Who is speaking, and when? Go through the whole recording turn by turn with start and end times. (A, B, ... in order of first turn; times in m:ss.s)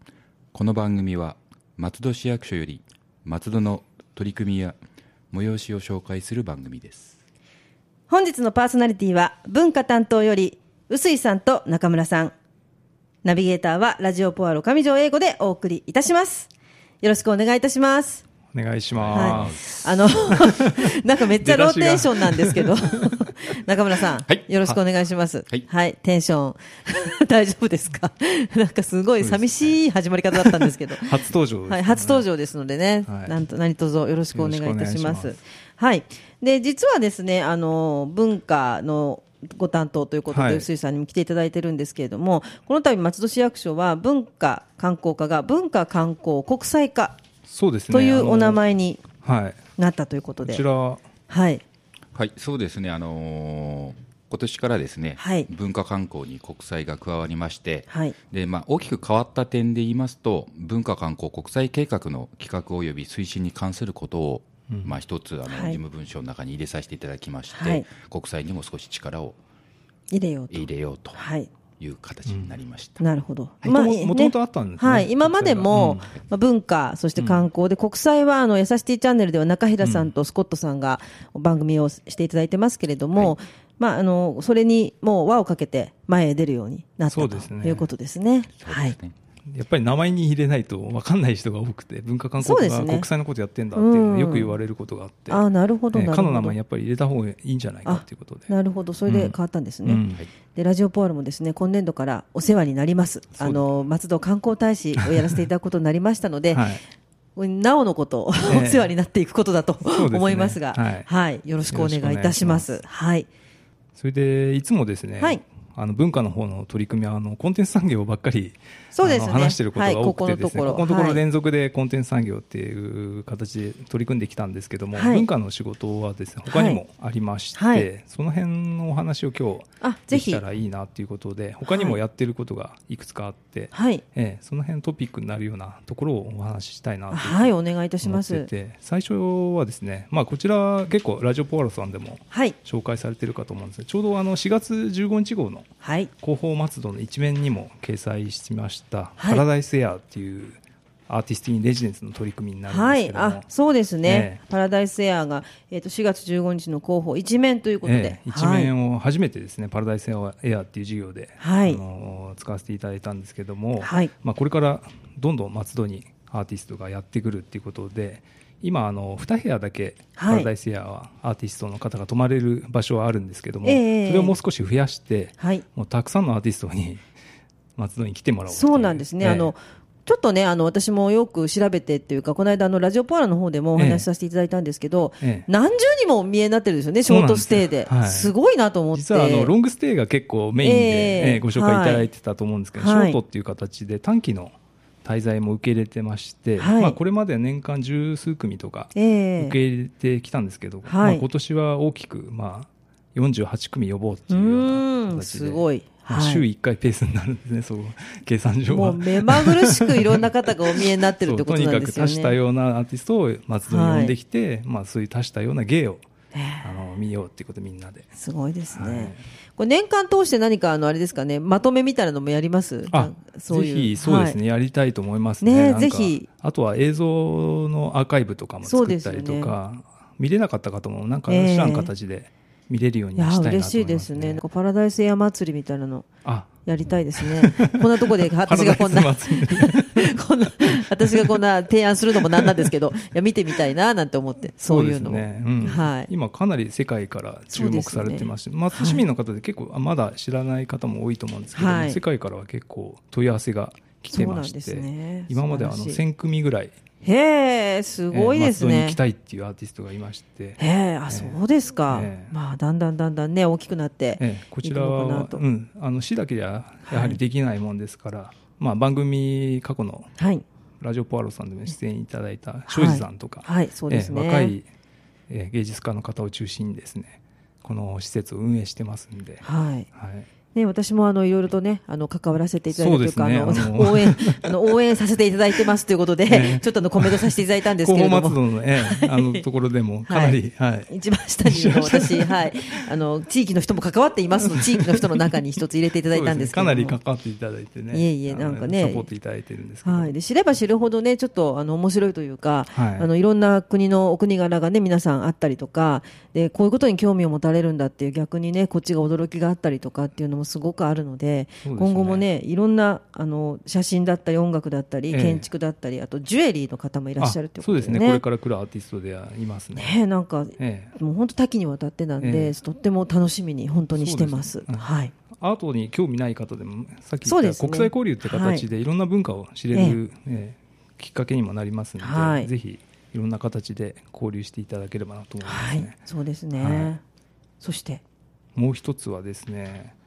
0:00.5-0:04.8 A
0:05.3-0:07.2 A
0:08.1-0:12.3 B
0:13.2-0:16.5 B
0:17.0-0:18.2 B
0:18.5-0:19.7 C
0:19.0-0:19.8 A
0:19.1-0:47.2 B
0:20.3-0:20.8 C
0:21.4-0:22.7 C
0:29.2-0:29.7 C
0:30.4-0:32.3 C
0:33.0-0:33.3 C
0:34.3-0:35.4 C
0:40.3-0:40.7 C
0:47.5-0:48.6 C
0:47.9-0:49.0 B
0:49.2-0:49.6 C
0:49.8-0:50.7 B
0:50.4-0:51.0 C
0:51.3-0:51.6 B
0:52.1-1:09.4 A
0:55.2-0:55.5 B
0:57.9-0:58.2 B
1:04.7-1:05.0 C
1:05.5-1:05.8 B
1:07.5-1:07.9 B
1:10.1-1:11.5 B
1:10.5-1:11.2 A
1:11.8-1:13.0 A
1:12.2-1:12.6 C
1:13.0-1:29.0 B
1:13.6-1:16.1 C
1:17.2-1:17.5 C
1:19.8-1:20.1 C
1:27.1-1:27.9 C
1:28.6-1:29.2 A
1:29.5-1:38.5 C
1:32.4-1:33.1 B
1:33.7-1:34.6 B
1:35.3-1:36.6 B
1:37.8-1:40.0 B
1:39.1-1:40.2 C
1:40.6-1:46.7 B
1:43.4-1:43.8 C
1:45.0-1:45.4 C
1:46.5-1:46.8 C
1:47.4-1:53.3 B
1:48.5-1:48.9 C
1:49.8-1:51.1 C
1:51.7-1:52.7 C
1:54.0-2:25.7 C
1:58.9-2:01.2 B
2:04.9-2:05.3 B
2:06.5-2:06.8 B
2:07.6-2:07.9 B
2:09.8-2:10.4 B
2:11.7-2:12.0 B
2:13.7-2:14.0 B
2:17.1-2:18.5 B
2:22.3-2:22.6 B
2:25.8-2:26.1 B
2:26.2-2:33.5 C
2:29.2-2:29.4 B
2:32.7-2:38.7 B
2:34.0-2:34.4 C
2:37.8-2:57.0 C
2:41.4-2:41.8 B
2:43.8-2:44.1 B
2:50.2-2:50.5 B
2:53.6-2:54.4 B
2:55.4-2:55.6 B
2:57.8-2:59.5 C
2:58.5-3:09.5 B
3:03.8-3:04.1 C
3:05.2-3:05.5 C
3:07.1-3:08.4 C
3:08.9-3:36.0 C
3:10.6-3:12.1 B
3:12.8-3:13.2 B
3:16.6-3:17.0 B
3:19.0-3:19.6 B
3:20.9-3:21.3 B
3:24.3-3:26.4 B
3:28.7-3:32.4 B
3:33.6-3:34.1 B
3:36.3-3:36.8 B
3:36.6-3:38.1 C
3:38.2-3:44.4 B
3:38.7-3:39.2 C
3:42.9-3:54.4 C
3:45.4-3:46.3 B
3:48.6-3:49.6 B
3:51.3-3:51.9 B
3:53.2-3:56.1 B
3:56.2-3:56.5 C
3:56.6-4:06.1 B
3:57.2-4:00.2 C
4:00.7-4:01.4 C
4:02.2-4:02.7 C
4:04.6-4:16.8 C
4:07.5-4:09.0 B
4:11.5-4:12.0 B
4:14.1-4:16.0 B
4:17.0-4:19.0 B
4:18.1-4:22.3 C
4:20.6-4:25.4 B
4:24.2-4:30.1 C
4:26.9-4:27.2 B
4:30.2-4:30.4 B
4:30.8-4:34.7 C
4:32.7-4:34.6 B
4:35.3-4:40.3 C
4:39.4-4:39.9 B
4:40.5-4:49.4 B
4:42.7-4:44.5 C
4:46.3-4:50.9 C
4:50.1-4:57.0 B
4:51.4-4:52.5 C
4:54.5-4:55.4 C
4:56.1-5:00.2 C
4:57.9-4:59.1 B
4:59.8-5:18.2 B
5:02.7-5:03.1 C
5:11.6-5:12.2 C
5:15.1-5:15.5 C
5:17.2-5:20.0 C
5:19.8-5:25.1 B
5:20.6-5:20.9 C
5:22.2-5:22.6 C
5:24.0-5:36.0 C
5:27.2-5:28.6 B
5:29.7-5:30.0 B
5:32.0-5:32.5 B
5:35.4-5:37.0 B
5:36.6-5:36.9 C
5:37.6-5:38.0 B
5:38.6-5:40.0 C